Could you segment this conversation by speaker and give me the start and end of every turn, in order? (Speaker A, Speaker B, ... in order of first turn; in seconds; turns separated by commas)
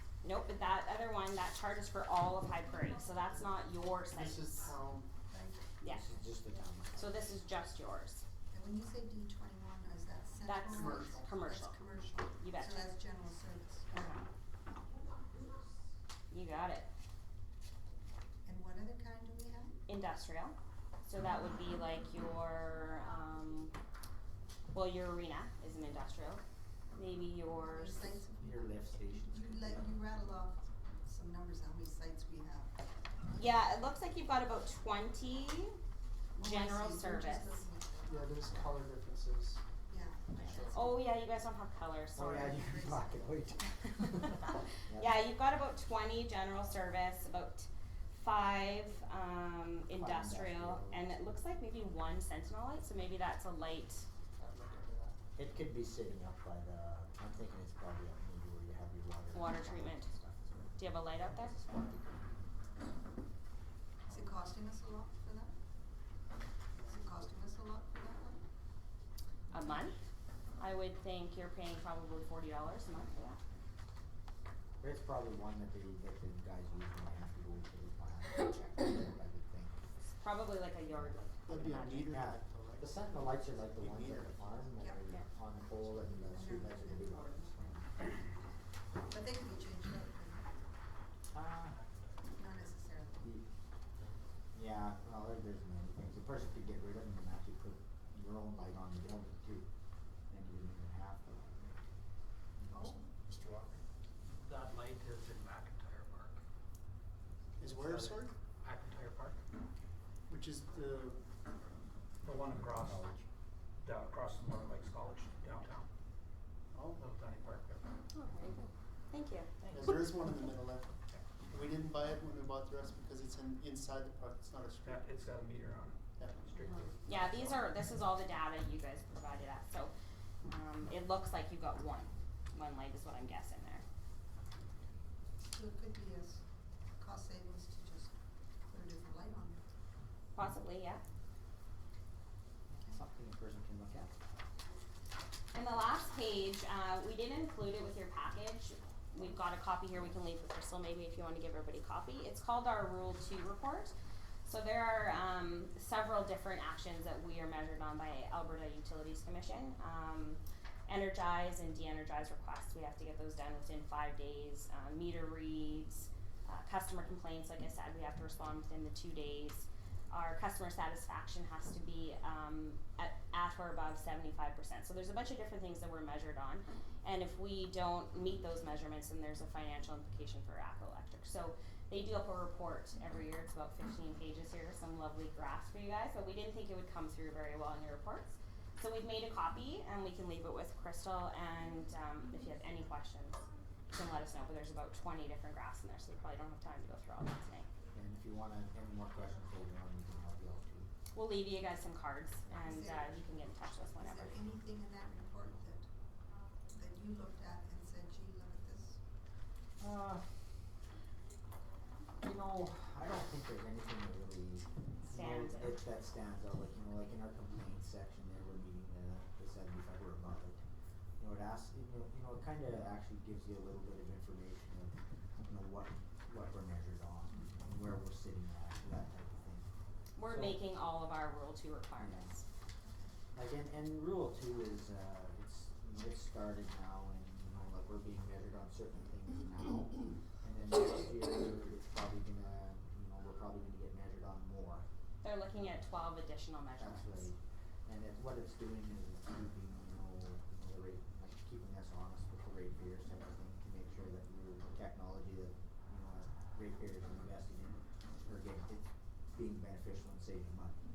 Speaker A: 0.2-4.7, Speaker B: 4.1-5.1, Speaker C: 5.3-6.1, Speaker A: 5.8-6.1, Speaker D: 5.9-7.3, Speaker A: 6.9-8.2, Speaker C: 8.5-14.2, Speaker A: 10.4-11.8, Speaker B: 10.7-11.2, Speaker A: 12.4-12.9, Speaker A: 13.9-14.2, Speaker A: 16.3-16.9, Speaker C: 18.4-19.8, Speaker A: 19.9-23.7, Speaker A: 24.7-26.4, Speaker A: 26.9-28.2, Speaker C: 27.5-32.7, Speaker D: 28.4-29.9, Speaker A: 33.3-35.8, Speaker C: 36.4-38.3, Speaker A: 36.4-37.6, Speaker B: 38.0-39.6, Speaker C: 39.9-41.0, Speaker A: 40.5-42.8, Speaker D: 42.1-45.2, Speaker C: 42.5-43.1, Speaker A: 44.9-54.1, Speaker D: 49.9-51.1, Speaker B: 54.4-55.1, Speaker D: 55.4-62.2, Speaker A: 59.3-60.1, Speaker A: 60.8-61.5, Speaker C: 64.0-65.5, Speaker C: 66.8-68.4, Speaker A: 69.5-70.0, Speaker A: 70.6-73.4, Speaker D: 74.8-79.9, Speaker A: 80.2-82.1, Speaker D: 80.9-87.8, Speaker B: 81.5-84.6, Speaker C: 84.8-88.1, Speaker C: 89.0-90.5, Speaker D: 91.3-91.8, Speaker C: 92.3-93.3, Speaker D: 93.2-93.5, Speaker D: 94.5-99.7, Speaker D: 100.3-101.8, Speaker C: 102.7-103.0, Speaker E: 103.3-103.8, Speaker E: 104.5-106.3, Speaker B: 107.6-108.3, Speaker E: 107.8-109.4, Speaker B: 110.3-111.2, Speaker E: 112.2-113.2, Speaker E: 113.8-115.9, Speaker B: 116.7-117.0, Speaker E: 116.9-117.8, Speaker A: 118.1-119.5, Speaker D: 119.6-120.0, Speaker E: 119.6-120.0, Speaker B: 119.7-120.9, Speaker B: 121.5-125.0, Speaker E: 124.8-127.7, Speaker A: 126.7-129.9, Speaker A: 130.4-133.8, Speaker C: 135.5-136.4, Speaker C: 137.0-138.1, Speaker C: 138.7-139.6, Speaker A: 140.3-141.0, Speaker D: 142.7-144.2, Speaker A: 145.5-153.9, Speaker A: 154.4-197.7, Speaker D: 197.9-200.9, Speaker A: 201.1-204.4, Speaker C: 202.5-203.2, Speaker C: 203.9-205.9, Speaker C: 206.7-209.0, Speaker D: 209.8-210.2, Speaker D: 212.2-220.6, Speaker A: 215.0-215.8, Speaker D: 221.2-229.7, Speaker A: 230.2-232.4, Speaker D: 230.2-230.6, Speaker D: 232.0-232.4, Speaker D: 233.3-244.8, Speaker A: 245.2-247.3, Speaker D: 246.8-260.8